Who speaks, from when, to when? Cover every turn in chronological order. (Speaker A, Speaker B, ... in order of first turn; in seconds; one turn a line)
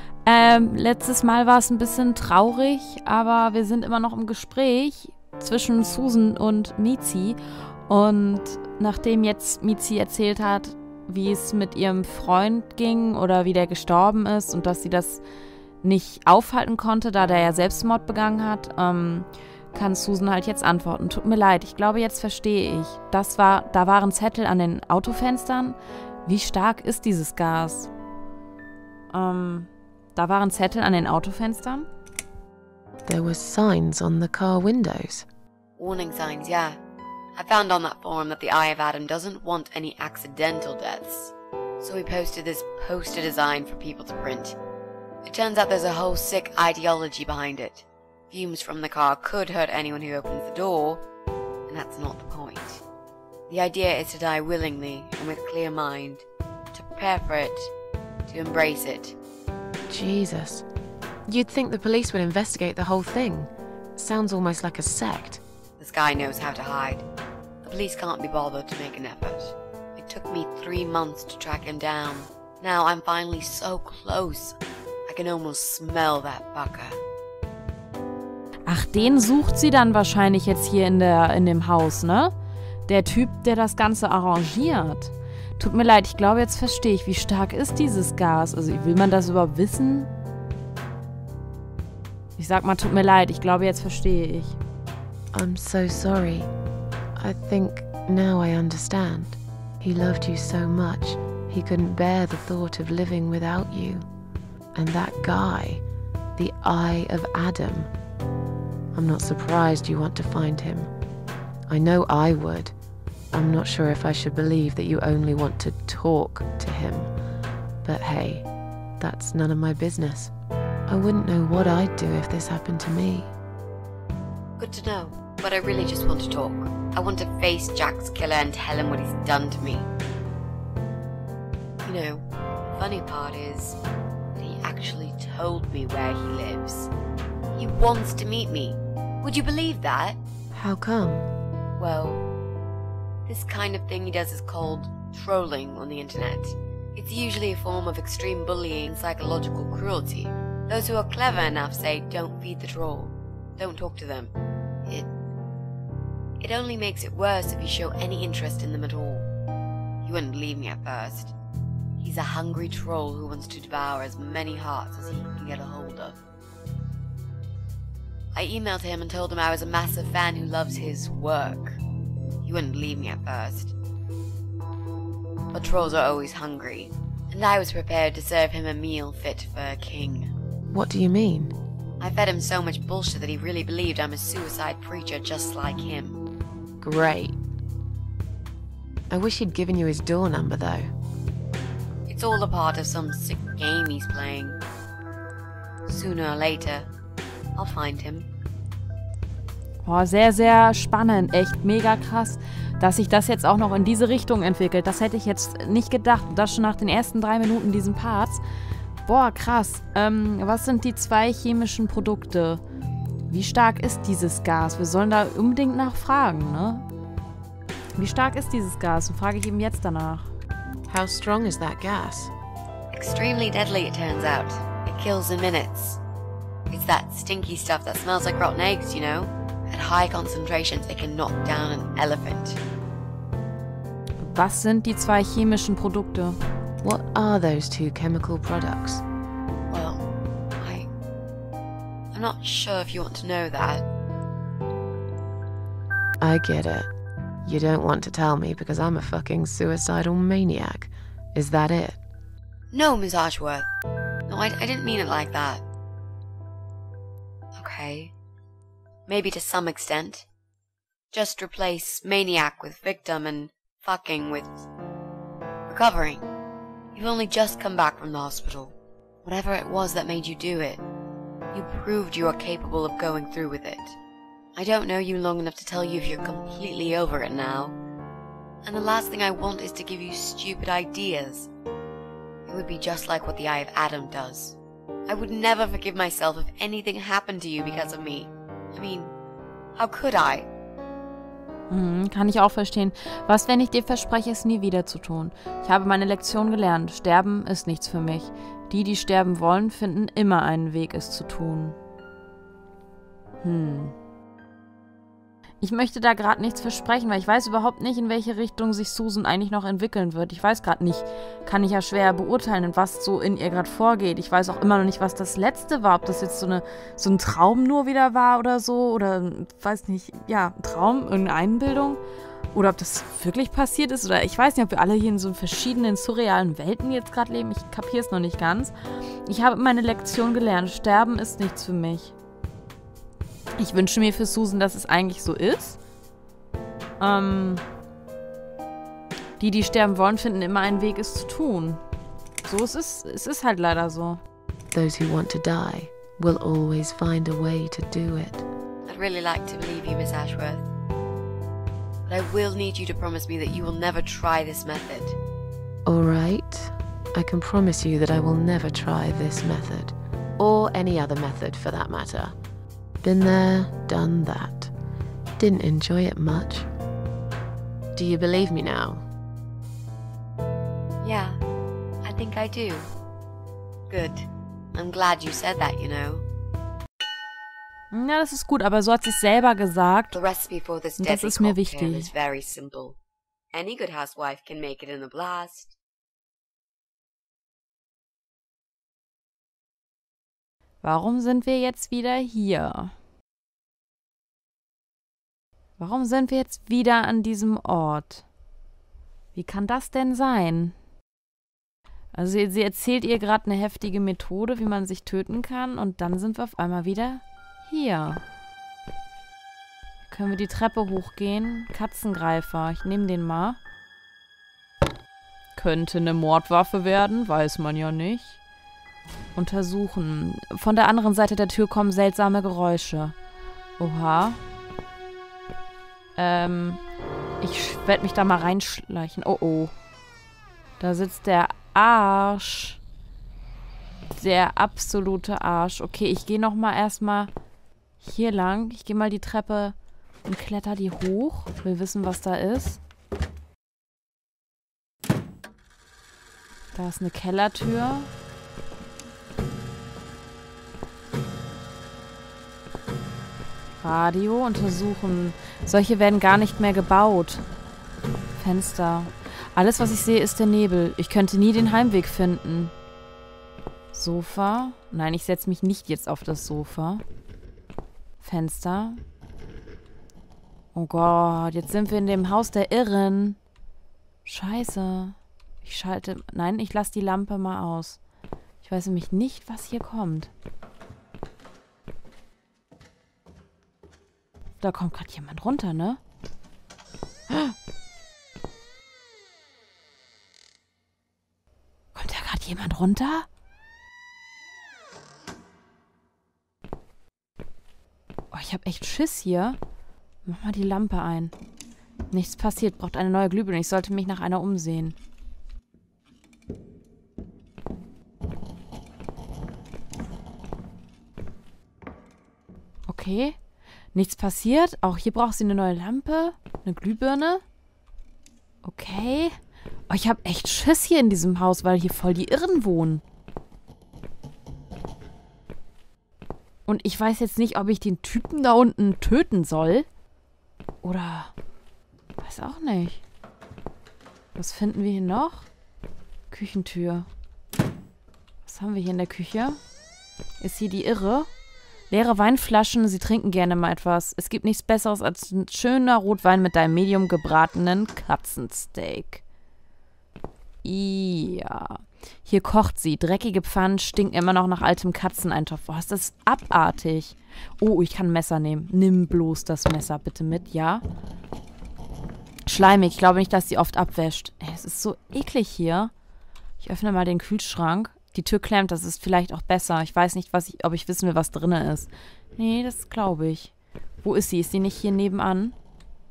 Speaker A: 0.2-15.2
Speaker A: 15.8-27.9
Speaker A: 29.1-31.9
Speaker B: 33.0-35.3
Speaker C: 35.8-36.8
Speaker C: 37.4-44.6
Speaker C: 45.2-51.0
Speaker C: 51.7-52.8
Speaker C: 53.5-57.7
Speaker C: 58.3-59.1
Speaker B: 59.9-60.6
Speaker B: 61.3-65.4
Speaker C: 65.8-67.0
Speaker C: 67.6-77.0
Speaker A: 78.7-82.3
Speaker A: 82.9-90.1
Speaker A: 92.4-94.6
Speaker B: 95.3-96.5
Speaker B: 97.2-104.0
Speaker B: 104.8-105.8
Speaker B: 106.4-107.9
Speaker B: 108.9-110.9
Speaker B: 111.7-112.7
Speaker B: 113.3-117.1
Speaker B: 117.8-118.5
Speaker B: 119.0-120.3
Speaker B: 120.9-123.3
Speaker C: 124.6-129.9
Speaker C: 131.8-133.8
Speaker C: 134.4-136.9
Speaker C: 137.5-140.2
Speaker B: 140.6-141.3
Speaker C: 141.8-142.2
Speaker C: 143.3-154.3
Speaker C: 156.4-159.3
Speaker C: 160.0-161.3
Speaker C: 162.0-166.2
Speaker C: 168.3-171.8
Speaker C: 172.4-173.8
Speaker C: 175.5-180.3
Speaker B: 180.7-181.6
Speaker C: 182.0-186.2
Speaker B: 186.8-187.4
Speaker B: 189.1-190.9
Speaker C: 192.1-194.6
Speaker C: 195.9-196.9
Speaker C: 197.6-198.3
Speaker A: 199.8-208.4
Speaker A: 209.1-212.6
Speaker A: 213.3-216.9
Speaker A: 218.0-220.3
Speaker B: 220.9-222.3
Speaker C: 222.9-226.0
Speaker C: 226.7-232.6
Speaker A: 234.2-236.4
Speaker B: 236.8-239.0
Speaker C: 239.7-240.1
Speaker C: 240.6-240.9
Speaker C: 242.1-243.9
Speaker B: 246.2-246.9
Speaker B: 247.4-252.0
Speaker C: 252.7-253.7
Speaker C: 254.3-255.6
Speaker C: 257.6-258.1
Speaker C: 259.1-260.2
Speaker C: 261.1-264.6
Speaker C: 265.7-266.2
Speaker C: 266.9-270.8
Speaker C: 271.5-274.0
Speaker C: 274.6-277.8
Speaker C: 278.6-281.5
Speaker C: 282.5-284.6
Speaker C: 285.1-289.1
Speaker C: 289.8-290.5
Speaker A: 291.7-301.8
Speaker A: 303.4-303.9
Speaker A: 305.6-322.0
Speaker A: 322.5-328.7
Speaker A: 329.2-332.1
Speaker A: 333.6-335.8
Speaker A: 337.0-337.6
Speaker A: 339.4-341.8
Speaker A: 342.4-344.2
Speaker B: 344.7-348.4
Speaker C: 348.9-350.7
Speaker C: 352.1-355.2
Speaker B: 355.9-362.4
Speaker B: 363.0-364.7
Speaker B: 365.4-366.7
Speaker B: 367.9-369.0
Speaker C: 371.0-371.4
Speaker C: 372.0-372.9
Speaker C: 373.9-376.2
Speaker A: 377.9-380.2
Speaker C: 380.1-383.0
Speaker A: 381.0-382.1
Speaker C: 383.5-385.7
Speaker A: 390.8-392.9
Speaker A: 395.8-398.2
Speaker A: 399.4-400.8
Speaker A: 402.1-408.2
Speaker A: 410.1-413.6
Speaker A: 415.6-418.4
Speaker A: 419.4-423.1
Speaker A: 423.8-424.4
Speaker A: 426.2-426.8
Speaker A: 427.4-429.8
Speaker A: 430.8-432.8
Speaker A: 434.1-437.3
Speaker A: 438.0-442.8
Speaker A: 446.7-448.1
Speaker A: 453.8-457.4
Speaker A: 458.4-462.7
Speaker A: 463.9-467.0
Speaker A: 468.2-469.0
Speaker A: 470.7-473.4
Speaker A: 474.2-478.0
Speaker A: 478.6-480.3
Speaker A: 484.6-486.0
Speaker A: 487.3-487.6
Speaker A: 491.9-493.3
Speaker A: 498.3-499.6
Speaker A: 500.2-501.3
Speaker A: 502.1-505.0
Speaker A: 512.9-513.4
Speaker A: 513.9-517.4
Speaker A: 518.6-519.4
Speaker A: 519.9-523.0
Speaker A: 526.7-529.9
Speaker A: 530.8-531.3
Speaker A: 532.2-533.0
Speaker A: 534.4-535.5
Speaker A: 536.3-537.1
Speaker A: 538.5-539.6
Speaker A: 540.4-541.3
Speaker A: 541.9-549.2
Speaker A: 550.6-560.8
Speaker A: 562.5-565.9
Speaker A: 566.6-575.6